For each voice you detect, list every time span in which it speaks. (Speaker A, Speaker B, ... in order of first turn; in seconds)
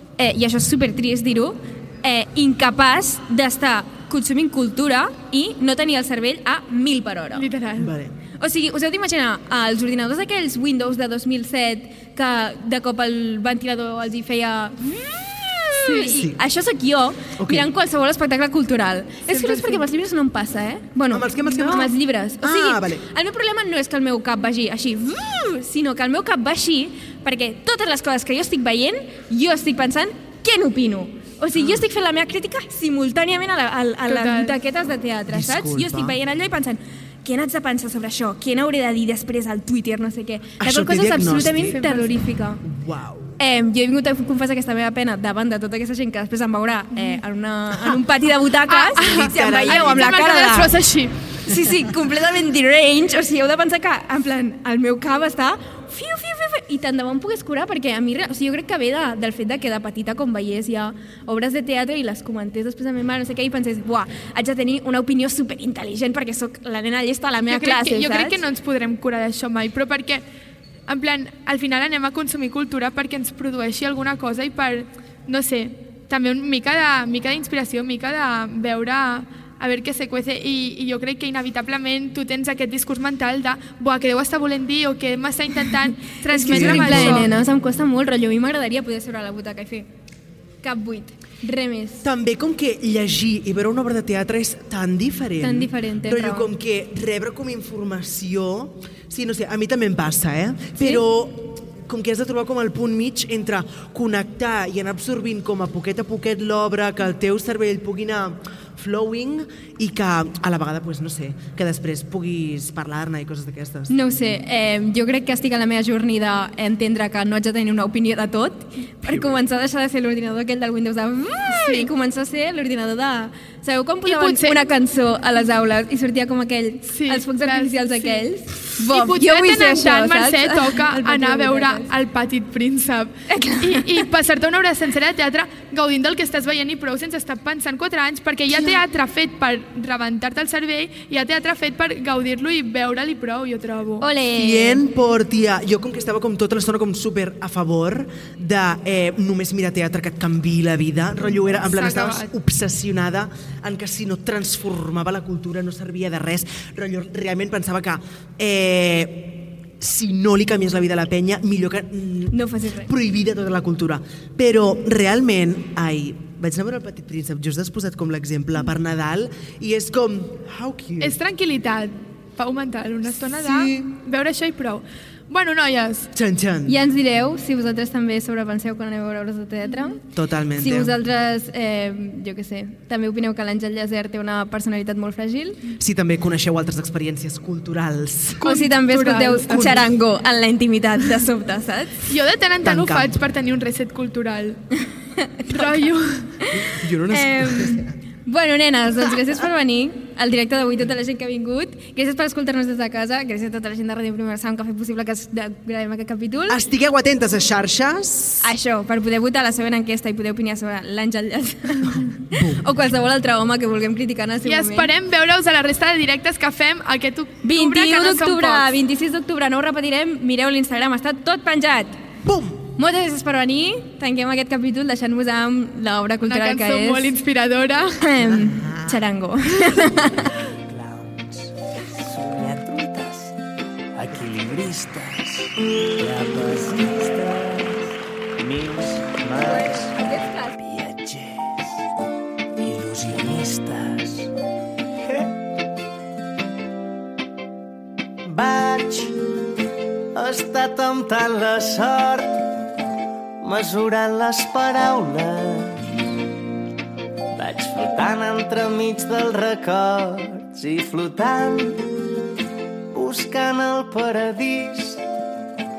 Speaker A: 0.2-7.5, 8.4-42.6, 43.4-50.7, 51.5-68.4, 86.3-89.9, 90.6-92.0, 95.4-96.5, 100.8-101.0, 113.9-131.9, 133.3-134.1, 144.0-144.8, 162.3-162.9, 176.7-180.0, 180.6-185.7, 188.4-192.1, 195.2-195.9, 196.4-206.6, 208.4-214.9, 217.4-222.0, 222.8-227.1, 228.0-230.4, 239.4-240.6
Speaker B: 7.3-7.9, 15.8-16.1, 19.3-19.8, 34.1-34.6, 41.5-42.2, 47.0-47.2, 48.7-51.1, 67.5-70.2, 70.9-87.3, 124.1-124.7, 126.9-128.3, 128.8-144.1, 151.4-152.3, 171.0-176.1, 188.4-189.9, 192.1-194.6, 195.5-196.3, 214.4-218.7, 226.2-228.1
Speaker C: 7.8-8.2, 16.0-16.4, 17.4-17.7, 21.1-23.1, 35.3-36.2, 40.6-41.8, 42.6-43.4, 49.0-50.2, 86.5-87.3, 92.0-113.9, 144.3-171.2, 173.4-173.9, 176.1-176.8, 180.2-180.9, 185.8-188.4, 192.6-193.2, 196.6-197.9, 206.5-208.6, 211.9-212.7, 222.2-222.7, 228.2-229.0
Speaker D: 230.7-233.4, 233.9-237.8, 238.4-241.8, 242.6-244.3, 245.1-245.3, 248.3-249.2, 250.2-252.5, 253.4-255.8, 257.4-261.9, 262.9-265.0